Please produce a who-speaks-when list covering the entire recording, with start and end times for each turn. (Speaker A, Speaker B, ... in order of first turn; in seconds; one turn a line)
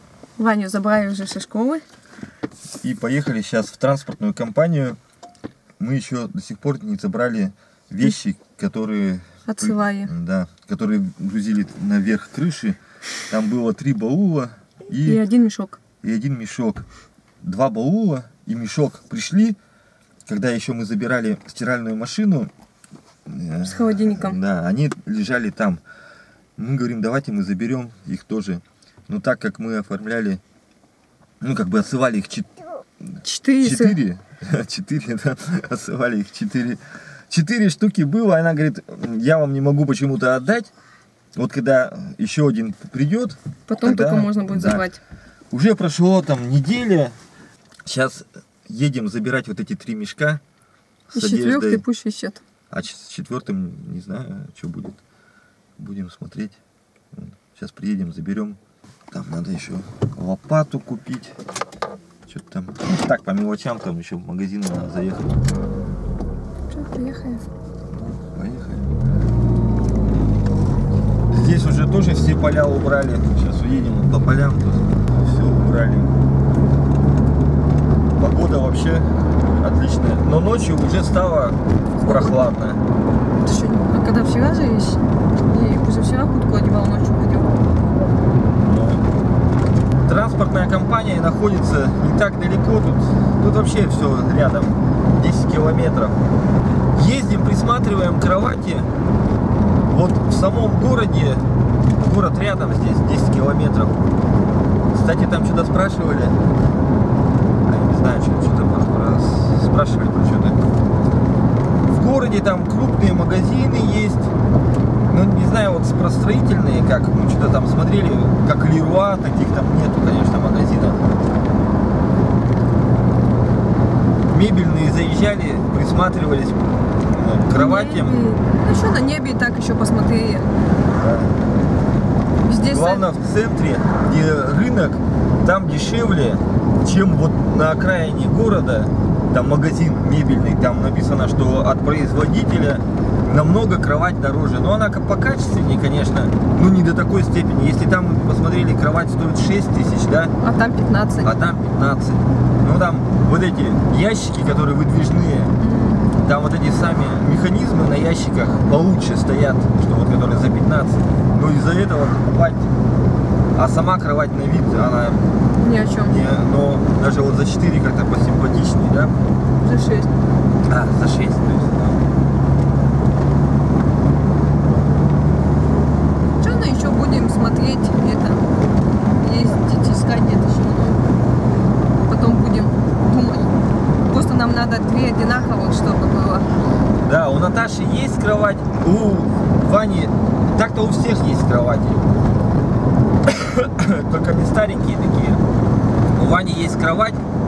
Speaker A: 0.4-1.8
Speaker B: 2.8-5.0
Speaker B: 5.8-12.8
Speaker A: 9.4-10.1
Speaker B: 13.3-15.2
Speaker A: 15.0-15.8
Speaker B: 16.0-16.8
Speaker B: 17.4-19.6
Speaker B: 20.2-22.5
Speaker B: 23.2-25.8
Speaker A: 23.6-24.4
Speaker B: 26.6-30.4
Speaker B: 31.4-32.5
Speaker A: 33.2-34.0
Speaker B: 33.6-40.7
Speaker B: 41.3-44.9
Speaker A: 43.7-45.0
Speaker B: 45.5-47.1
Speaker B: 47.9-50.4
Speaker B: 51.1-51.8
Speaker A: 51.1-52.4
Speaker B: 52.7-55.0
Speaker B: 55.8-56.6
Speaker B: 57.1-58.6
Speaker B: 59.1-61.4
Speaker B: 62.3-65.4
Speaker A: 66.7-67.5
Speaker B: 68.0-68.9
Speaker B: 71.3-76.1
Speaker B: 78.2-82.8
Speaker A: 82.0-82.4
Speaker A: 83.4-87.7
Speaker B: 88.6-89.0
Speaker B: 90.0-96.2
Speaker B: 96.9-98.9
Speaker B: 99.9-101.5
Speaker B: 102.0-104.0
Speaker B: 104.9-106.4
Speaker B: 107.6-110.7
Speaker B: 111.8-114.3
Speaker B: 115.1-121.0
Speaker B: 124.3-128.3
Speaker A: 127.5-130.5
Speaker B: 130.9-131.4
Speaker A: 132.4-133.1
Speaker B: 132.7-150.3
Speaker A: 150.4-151.3
Speaker B: 151.2-155.6
Speaker A: 155.6-156.2
Speaker B: 156.2-162.7
Speaker B: 163.5-165.3
Speaker A: 165.6-166.2
Speaker B: 166.0-169.2
Speaker A: 169.6-170.1
Speaker B: 170.7-172.0
Speaker A: 176.4-178.4
Speaker A: 179.2-181.0
Speaker A: 182.1-183.5
Speaker A: 184.1-186.5
Speaker B: 187.0-192.1
Speaker B: 193.2-195.4
Speaker B: 196.1-197.2